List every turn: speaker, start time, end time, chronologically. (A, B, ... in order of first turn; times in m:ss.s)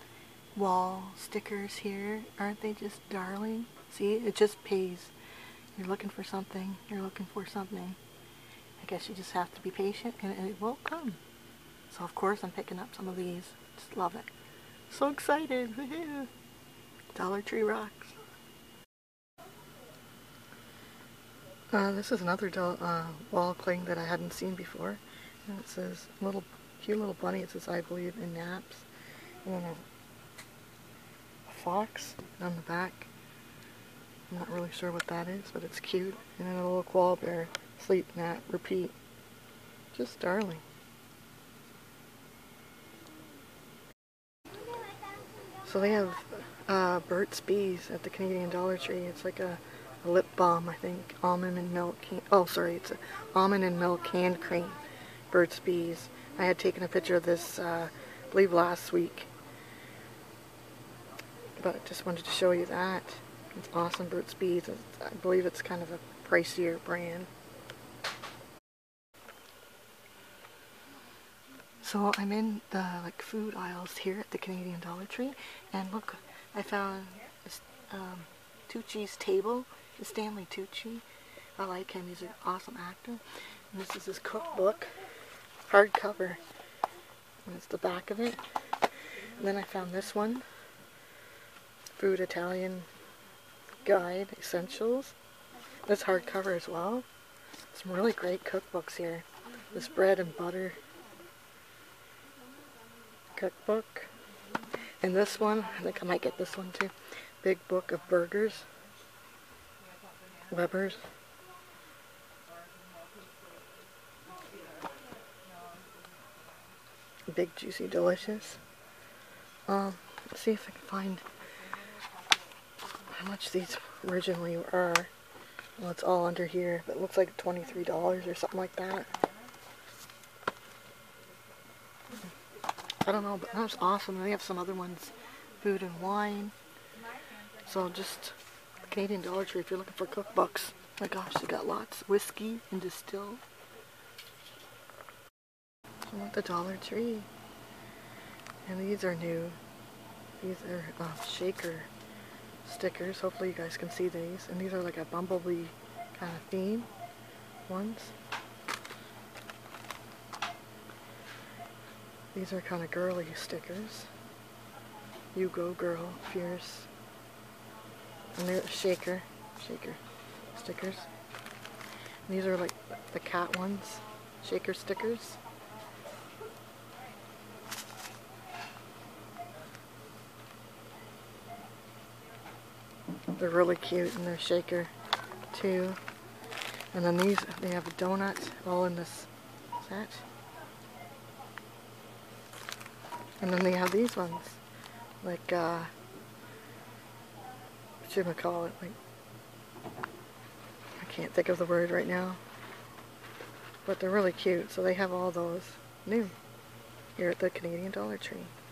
0:00.5-0:05.1 A
0:05.7-0:08.0 A
0:08.8-0:11.2 A
0:11.9-0:14.3 A
0:14.9-0:16.3 A
0:17.1-0:18.2 A
0:21.7-0:28.9 A
0:29.4-0:29.8 A
0:31.5-0:33.1 A
0:34.3-0:38.9 A
0:39.9-0:40.6 A
0:45.6-0:59.3 A
1:01.6-1:07.3 A
1:11.8-1:21.0 A
1:21.6-1:25.0 A
1:25.6-1:26.4 A
1:27.4-1:28.4 A
1:29.3-1:30.4 A
1:31.9-1:32.9 A
1:33.8-1:35.1 A
1:35.8-1:37.0 A
1:37.7-1:40.8 A
1:43.3-1:44.1 A
1:45.0-1:48.7 A
1:50.5-1:51.1 A
1:57.3-1:58.6 A
1:59.7-2:01.2 A
2:03.0-2:05.1 A
2:05.8-2:09.1 A
2:13.0-2:16.5 A
2:17.6-2:23.4 A
2:26.0-2:27.3 A
2:28.6-2:29.6 A
2:30.4-2:31.9 A
2:32.6-2:36.9 A
2:37.7-2:38.1 A
2:42.3-2:44.1 A
2:45.3-2:46.9 A
2:48.3-2:50.0 A
2:50.5-2:51.1 A
2:52.2-2:55.4 A
3:03.3-3:04.9 A
3:05.5-3:06.0 A
3:06.9-3:10.2 A
3:13.4-3:14.6 A
3:15.2-3:15.9 A
3:18.0-3:19.0 A
3:21.0-3:22.4 A
3:23.8-3:26.4 A
3:27.2-3:28.5 A